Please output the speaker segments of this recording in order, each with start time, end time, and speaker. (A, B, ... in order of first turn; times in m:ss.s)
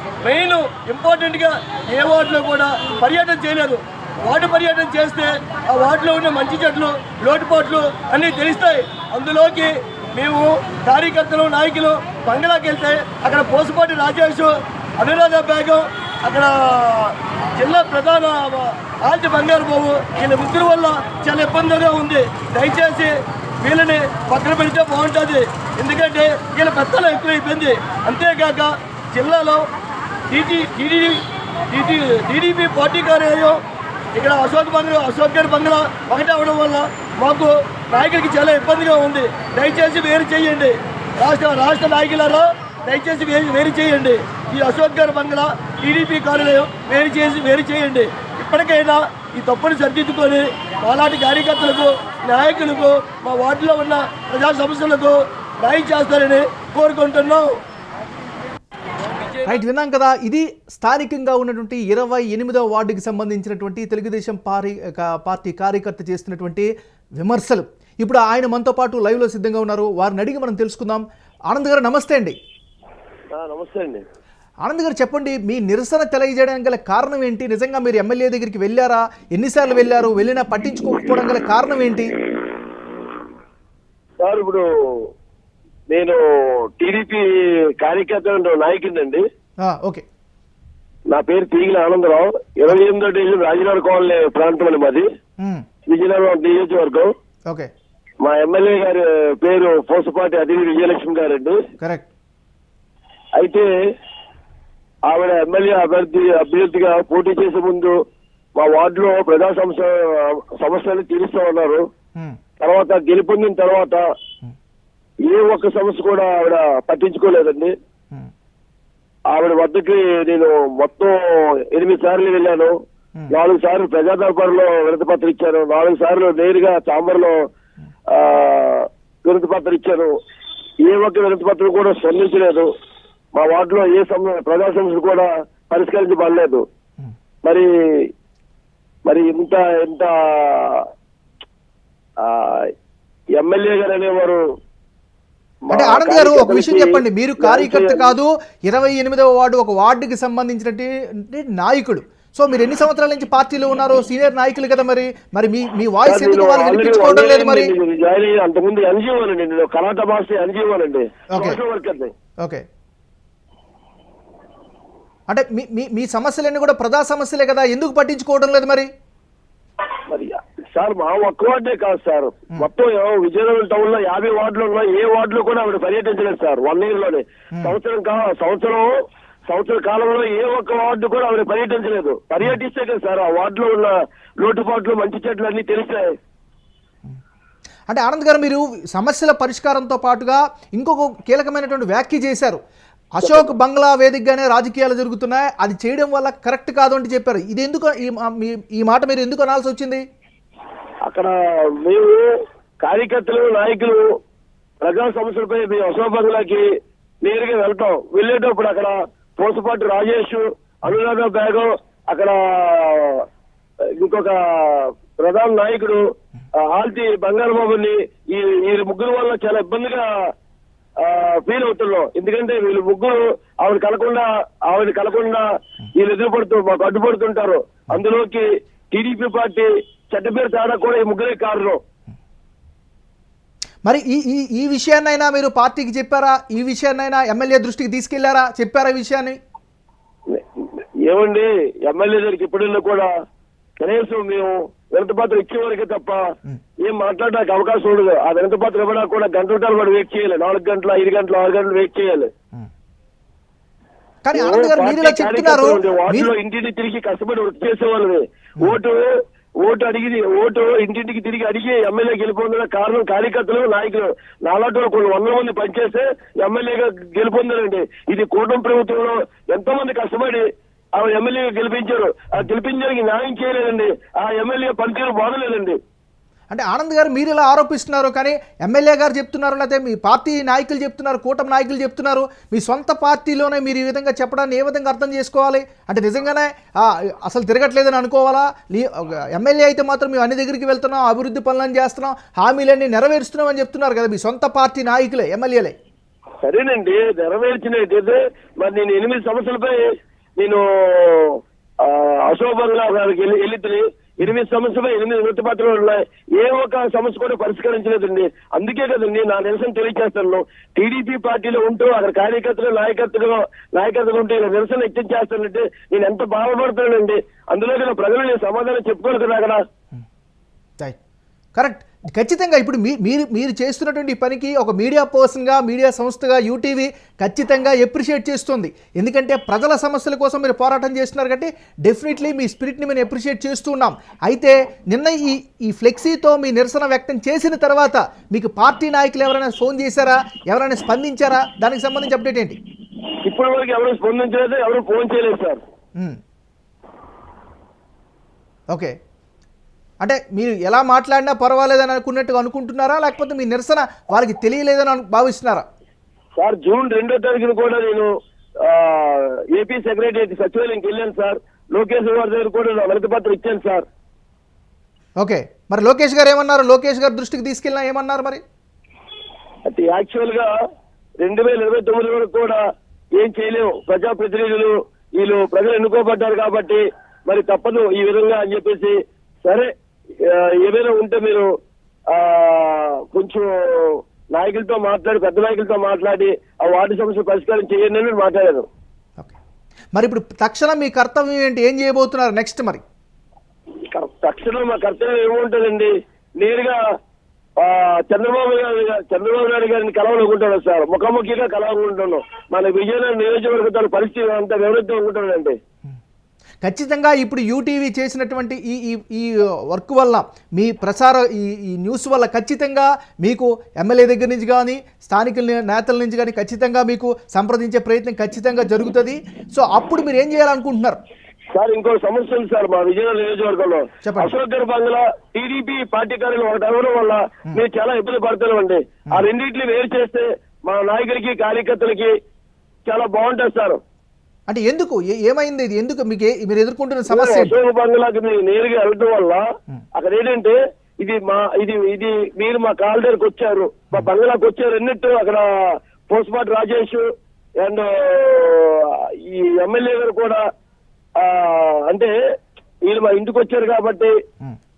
0:00.2-0:29.7 A
0:30.3-0:33.6 A
0:34.1-0:57.6 A
0:59.1-0:59.6 A
0:59.4-1:12.4 B
1:13.3-1:14.0 C
1:14.6-1:22.1 B
1:24.2-1:25.1 C
1:25.9-1:27.2 C
1:27.8-1:29.2 C
1:29.6-1:30.0 B
1:31.1-1:35.0 C
1:35.4-1:35.7 B
1:35.8-1:37.1 C
1:38.2-1:41.6 C
1:41.8-1:42.1 B
1:43.4-1:43.7 C
1:45.0-1:48.0 C
1:48.6-1:51.8 C
1:52.6-1:54.0 C
1:55.2-1:57.7 C
1:59.3-2:02.7 C
2:03.3-2:07.4 C
2:08.1-2:10.1 C
2:10.8-2:12.7 C
2:13.3-2:16.6 C
2:17.4-2:18.1 C
2:19.0-2:20.9 C
2:22.2-2:22.7 C
2:23.4-2:24.4 C
2:25.7-2:28.1 C
2:25.7-2:37.7 B
2:36.0-2:42.1 C
2:41.3-2:41.6 B
2:45.3-2:48.9 B
2:50.1-2:58.9 C
2:59.5-3:06.2 C
3:07.9-3:12.6 B
3:13.1-3:20.0 B
3:13.2-3:13.5 C
3:21.1-3:22.3 C
3:22.8-3:24.0 C
3:24.8-3:26.6 C
3:27.2-3:33.2 C
3:34.0-3:36.0 C
3:36.6-3:40.1 C
3:41.0-3:45.4 C
3:46.0-3:51.8 C
3:53.8-3:59.4 B
4:00.3-4:03.1 C
4:03.8-4:06.2 C
4:06.8-4:12.3 C
4:14.2-4:16.3 B
4:14.3-4:35.8 C
4:36.5-4:55.7 B
4:56.4-4:59.9 C
5:00.4-5:19.6 C
5:21.6-5:42.6 B
5:43.2-5:45.6 C
5:50.0-5:55.6 B
5:56.4-5:58.1 C
5:58.6-6:03.8 C
6:05.2-6:08.4 B
6:09.7-6:10.5 C
6:11.2-6:12.6 C
6:13.2-6:21.5 C
6:22.1-6:28.6 C
6:29.9-6:32.8 B
6:33.9-6:36.8 C
6:37.6-6:45.6 C
6:46.6-7:01.0 B
7:01.5-7:12.1 C
7:04.0-7:04.3 B
7:12.8-7:13.8 C
7:14.5-7:17.6 B
7:17.1-7:27.0 C
7:27.6-7:30.4 C
7:31.2-7:32.1 C
7:32.8-7:34.1 C